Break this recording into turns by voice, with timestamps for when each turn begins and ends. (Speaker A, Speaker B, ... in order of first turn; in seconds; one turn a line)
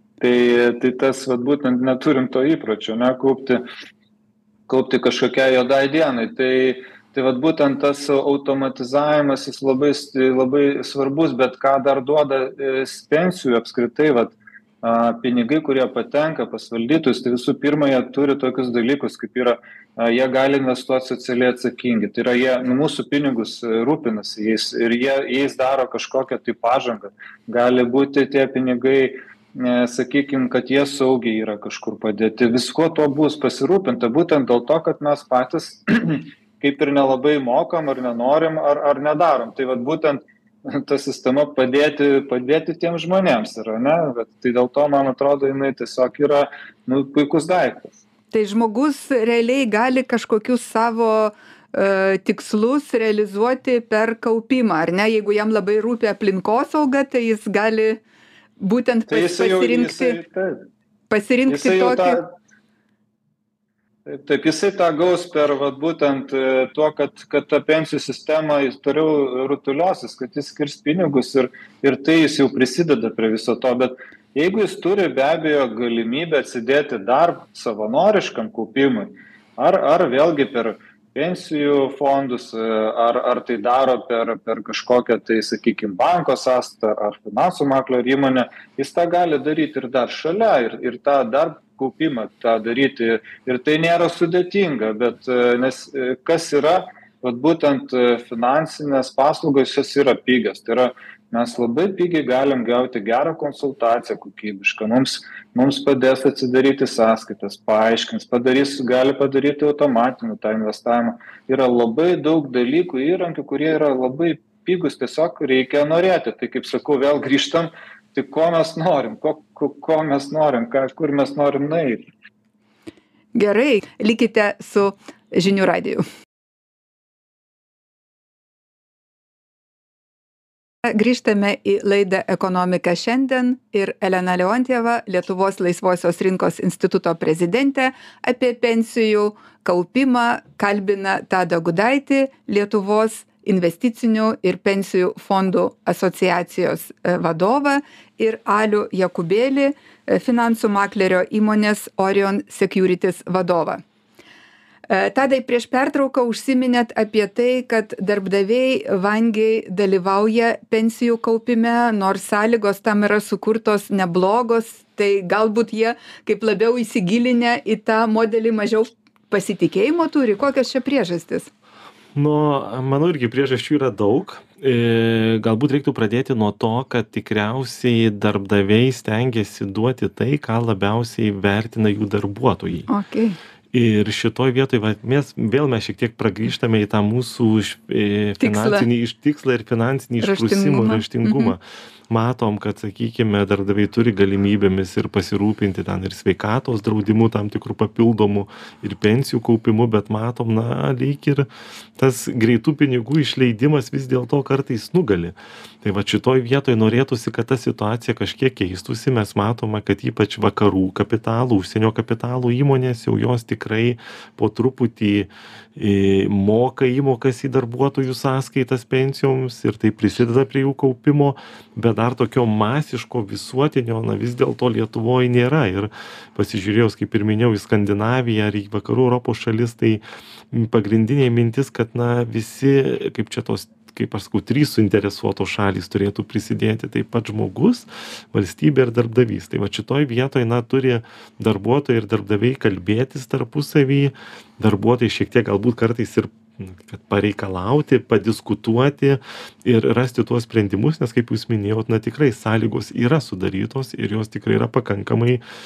Speaker A: 0.2-3.6
Speaker A: 4.7-47.9
Speaker B: 48.3-58.0
Speaker B: 58.6-60.2
Speaker A: 59.1-60.6
Speaker B: 61.1-62.2
Speaker A: 61.5-62.3
Speaker A: 64.1-122.1
Speaker B: 123.3-126.0
Speaker B: 130.8-153.8
Speaker B: 154.9-171.5
Speaker C: 172.2-182.9
Speaker B: 182.9-183.4
Speaker C: 183.7-255.4
Speaker B: 188.4-188.9
Speaker B: 190.2-191.5